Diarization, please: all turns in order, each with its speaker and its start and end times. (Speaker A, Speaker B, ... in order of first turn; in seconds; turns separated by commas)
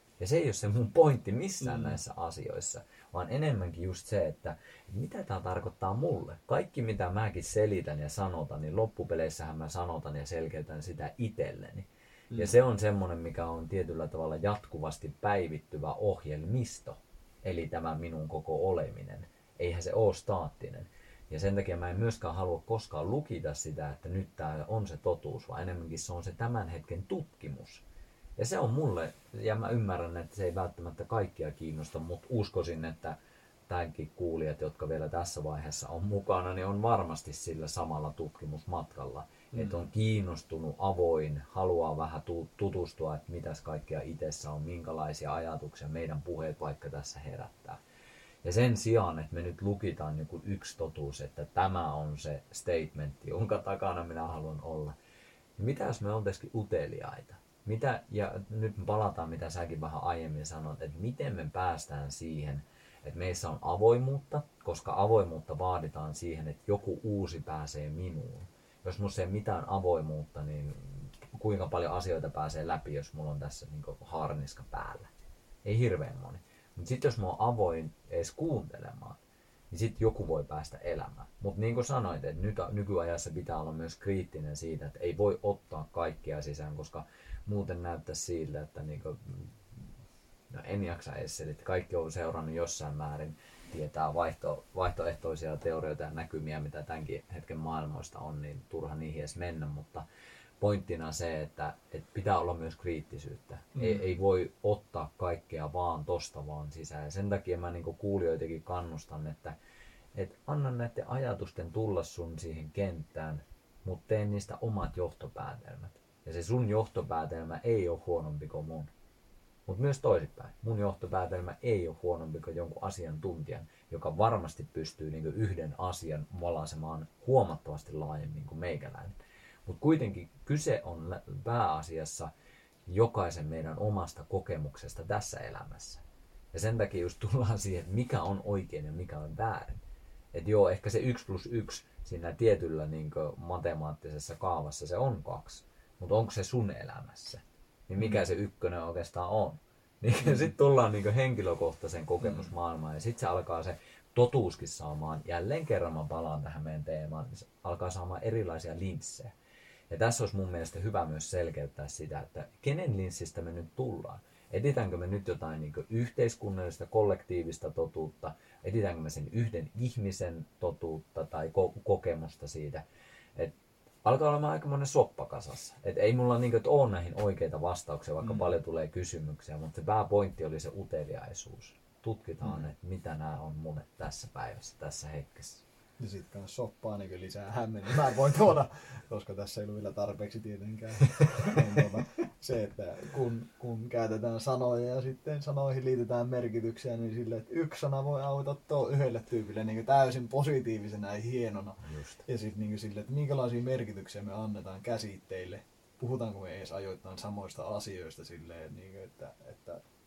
Speaker A: 0.2-27.8, Speaker B: 1.6-2.0, Speaker A: 28.4-33.2, Speaker A: 33.7-47.8, Speaker B: 39.5-39.8, Speaker A: 48.4-55.0, Speaker A: 55.6-75.1, Speaker A: 75.7-79.2, Speaker A: 79.7-89.9, Speaker A: 90.5-100.0, Speaker A: 100.6-109.6, Speaker B: 103.8-104.0, Speaker A: 110.2-118.9, Speaker A: 119.7-132.3, Speaker A: 132.9-136.0, Speaker A: 136.5-139.8, Speaker A: 140.3-159.3, Speaker B: 150.2-150.5, Speaker B: 152.2-152.5, Speaker A: 159.9-172.8, Speaker A: 173.4-185.6, Speaker B: 178.2-178.6, Speaker B: 186.0-209.8, Speaker A: 201.8-202.2